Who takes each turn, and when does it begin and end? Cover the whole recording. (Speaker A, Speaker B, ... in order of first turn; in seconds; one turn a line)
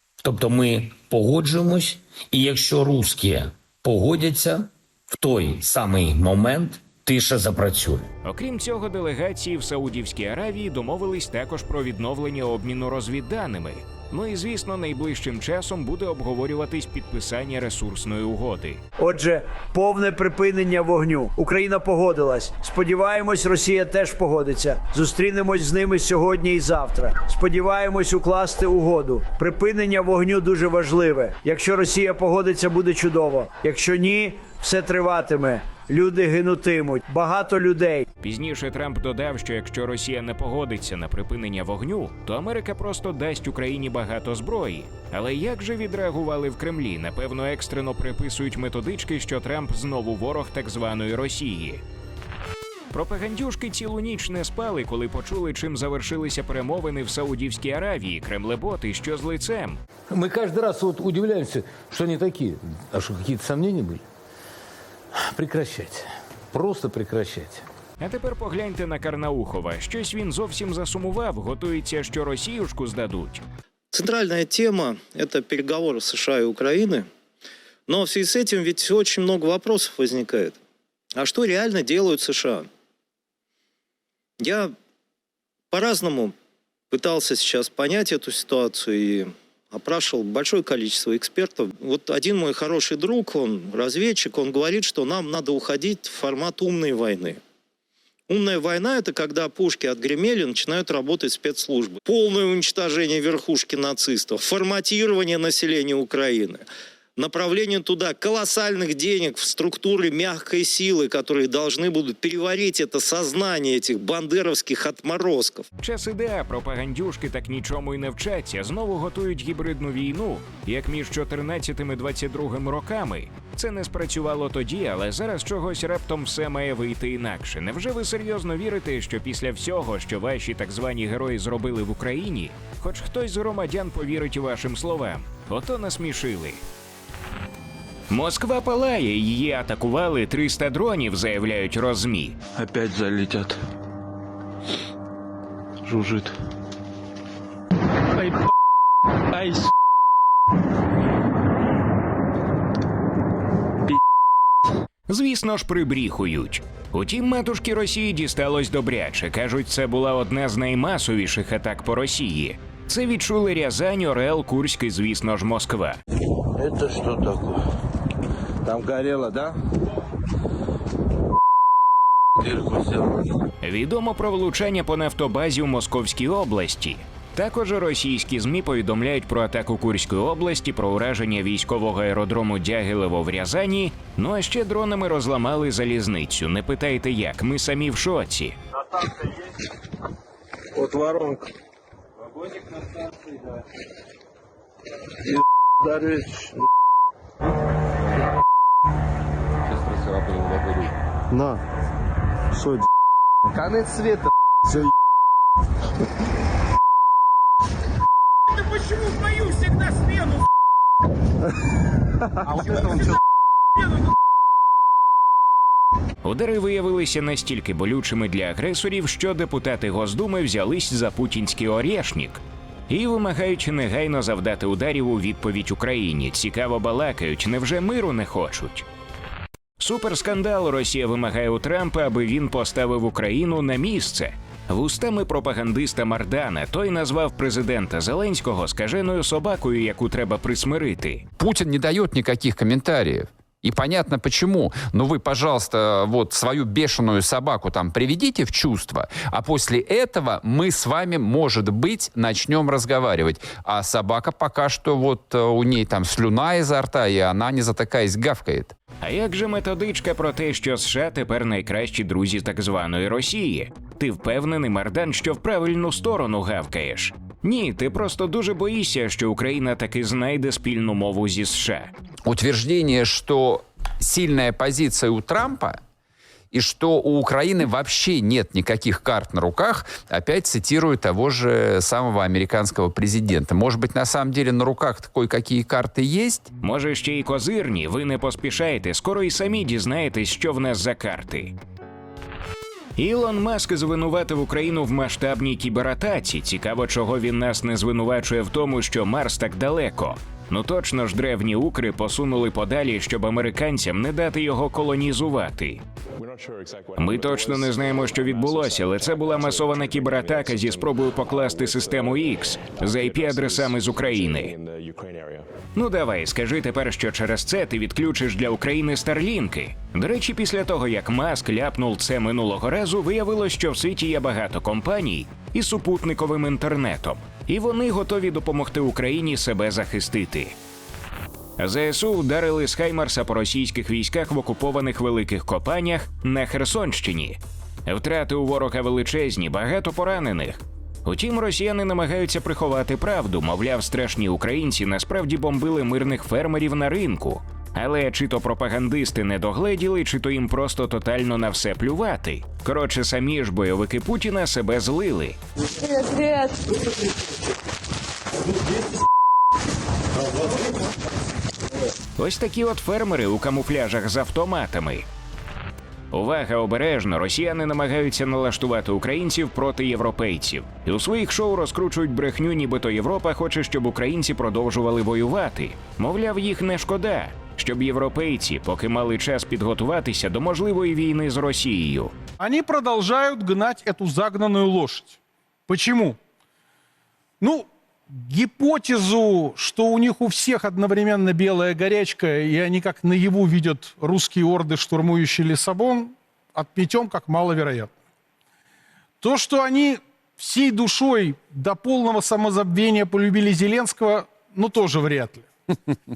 Speaker A: 0.2-8.1
Speaker B: 8.2-18.8
Speaker C: 19.0-38.0
Speaker B: 38.2-51.8
Speaker B: 52.9-59.8
Speaker D: 60.1-64.0
Speaker D: 65.2-67.6
Speaker B: 68.0-73.4
Speaker E: 73.9-77.1
Speaker E: 77.9-80.6
Speaker E: 81.1-82.7
Speaker E: 84.4-84.7
Speaker E: 85.7-86.3
Speaker E: 86.9-97.4
Speaker E: 98.3-115.7
Speaker B: 115.8-136.6
Speaker B: 138.1-142.3
Speaker F: 142.6-143.6
Speaker F: 145.8-146.3
Speaker B: 155.1-166.0
Speaker G: 166.6-167.4
Speaker G: 168.7-169.5
Speaker B: 173.6-188.6
Speaker G: 190.8-191.4
Speaker G: 195.8-196.5
Speaker G: 203.5-204.2
Speaker B: 216.2-228.8
Speaker B: 229.8-241.2
Speaker H: 241.4-258.7
Speaker B: 259.0-271.9
Speaker H: 272.2-275.8
Speaker H: 276.5-286.5
Speaker B: 286.6-291.5
Speaker B: 293.0-305.8
Speaker F: 306.2-315.5
Speaker B: 307.0-314.5
Speaker B: 315.8-330.5
Speaker B: 331.6-355.4
Speaker B: 362.2-365.0
Speaker B: 366.1-382.1
Speaker I: 382.4-385.1
Speaker I: 385.7-386.2
Speaker I: 387.4-397.9
Speaker I: 399.2-405.5